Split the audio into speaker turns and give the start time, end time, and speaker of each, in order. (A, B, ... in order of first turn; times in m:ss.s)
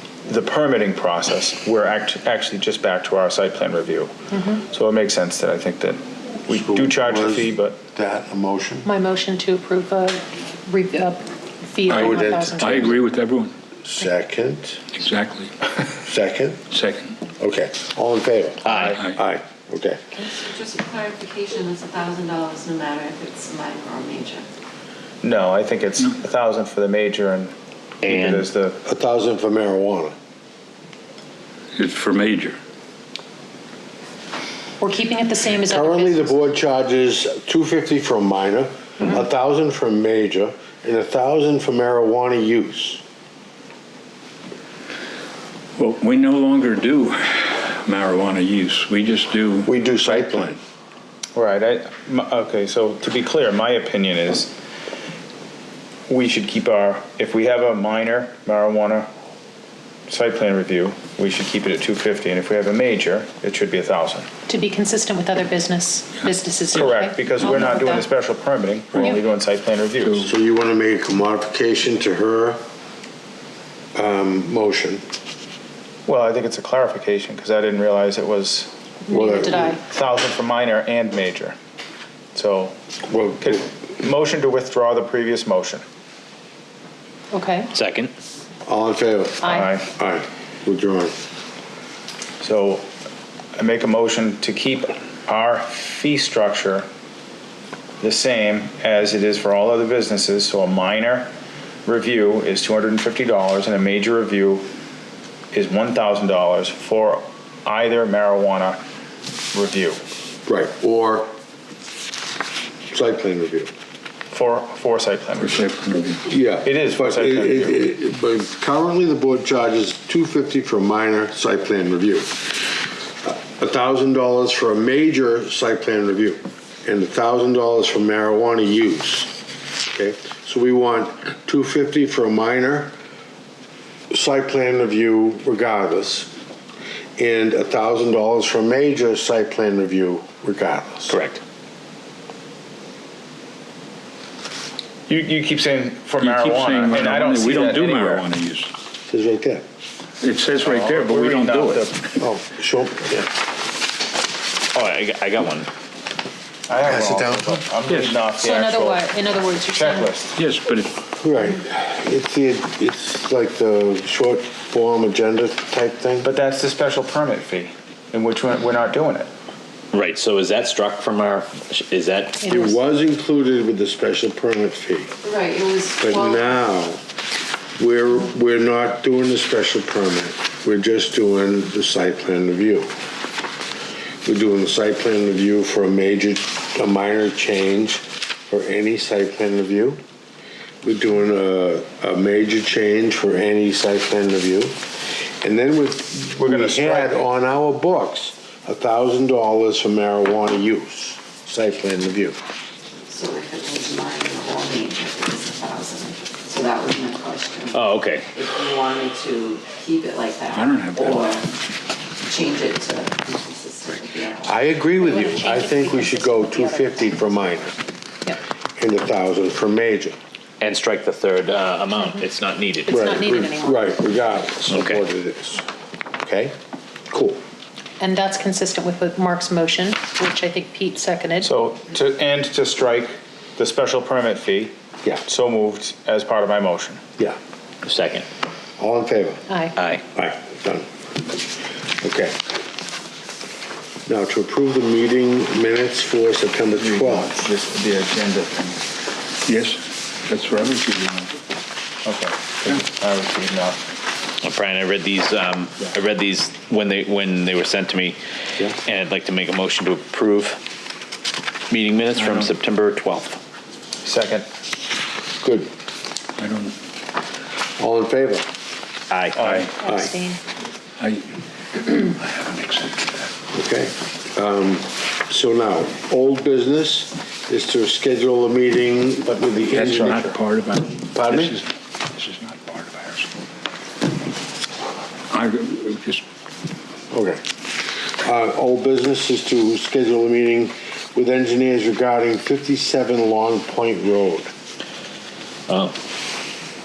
0:00.3-0:04.1 A
0:04.3-0:04.6 B
0:04.6-0:07.8 A
0:06.5-0:08.9 C
0:08.8-0:13.0 B
0:11.9-0:13.0 C
0:11.9-0:13.5 D
0:13.9-0:14.8 C
0:14.9-0:15.7 D
0:16.0-0:16.6 C
0:16.7-0:17.2 D
0:17.4-0:20.0 C
0:18.6-0:19.0 E
0:18.8-0:19.2 D
0:20.1-0:24.4 F
0:25.2-0:28.8 A
0:28.0-0:28.5 E
0:28.8-0:30.1 C
0:31.8-0:32.6 D
0:34.8-0:36.4 B
0:35.7-0:43.0 C
0:45.8-0:49.7 D
0:49.7-0:50.6 C
0:51.3-0:54.6 A
0:56.1-0:59.1 A
1:00.1-1:04.3 A
1:04.5-1:08.1 B
1:06.7-1:07.7 D
1:06.7-1:10.3 A
1:10.2-1:12.6 C
1:14.0-1:15.0 C
1:16.1-1:18.7 A
1:19.1-1:19.8 B
1:19.1-1:19.8 C
1:19.7-1:21.6 A
1:22.3-1:22.8 A
1:23.1-1:23.6 C
1:23.4-1:25.8 A
1:27.3-1:27.7 B
1:27.7-1:28.1 E
1:28.7-1:31.1 C
1:29.4-1:29.7 B
1:29.4-1:29.9 A
1:32.4-1:32.9 A
1:33.6-1:36.9 A
1:38.0-1:41.3 A
1:41.9-1:44.7 A
1:45.5-1:48.8 A
1:49.5-1:50.0 A
1:50.4-1:51.3 C
1:52.9-1:53.7 C
1:54.3-1:55.6 A
1:55.4-1:56.2 D
1:56.3-2:09.3 C
1:56.6-1:57.8 A
2:09.9-2:12.9 C
2:14.1-2:16.3 C
2:17.2-2:21.2 C
2:21.1-2:21.4 E
2:25.1-2:28.3 A
2:26.2-2:28.7 D
2:29.1-2:29.6 C
2:30.2-2:31.9 D
2:30.6-2:31.9 A
2:32.2-2:33.3 C
2:34.7-2:35.7 E
2:36.7-2:40.3 A
2:36.8-2:37.6 C
2:37.9-2:38.2 D
2:38.3-2:40.3 B
2:40.4-2:41.0 D
2:41.1-2:46.3 C
2:46.2-2:49.3 A
2:49.9-2:52.4 E
2:52.4-2:52.8 B
2:52.5-2:55.1 C
2:55.2-2:56.4 F
2:56.0-2:57.0 C
2:57.8-3:02.9 C
3:04.2-3:10.0 C
3:10.8-3:14.8 C
3:15.4-3:22.4 C
3:16.4-3:17.2 A
3:23.1-3:31.5 F
3:27.7-3:28.3 E
3:30.5-3:31.4 D
3:32.2-3:34.6 F
3:34.4-3:37.8 C
3:35.0-3:37.5 B
3:38.8-3:40.2 C
3:40.6-3:43.0 E
3:41.9-3:42.2 B
3:42.8-3:44.3 B
3:42.9-3:45.6 C
3:44.7-3:45.0 E
3:46.2-3:46.6 C
3:47.1-3:47.4 C
3:48.0-3:51.5 B
3:51.4-3:54.7 A
3:55.2-3:57.0 A
3:57.8-3:58.2 E
3:58.8-3:59.4 C
3:59.5-3:59.8 B
4:00.1-4:00.8 C
4:02.0-4:02.3 C
4:04.1-4:07.4 C
4:06.8-4:08.8 A
4:09.5-4:11.3 D
4:12.0-4:13.8 A
4:14.4-4:18.2 E
4:18.8-4:20.6 E
4:21.7-4:23.4 E
4:22.1-4:22.5 D
4:24.0-4:24.5 A
4:25.4-4:25.7 C
4:26.4-4:26.8 D
4:27.8-4:28.4 C
4:29.1-4:29.7 E
4:29.4-4:29.8 D
4:29.8-4:30.4 B
4:29.8-4:30.1 C
4:31.0-4:31.2 D
4:31.8-4:33.3 D
4:33.5-4:40.4 C
4:39.7-4:43.3 D
4:41.1-4:41.6 C
4:45.3-4:46.2 D
4:47.1-4:47.4 C
4:48.2-4:54.5 C
4:55.7-4:55.9 E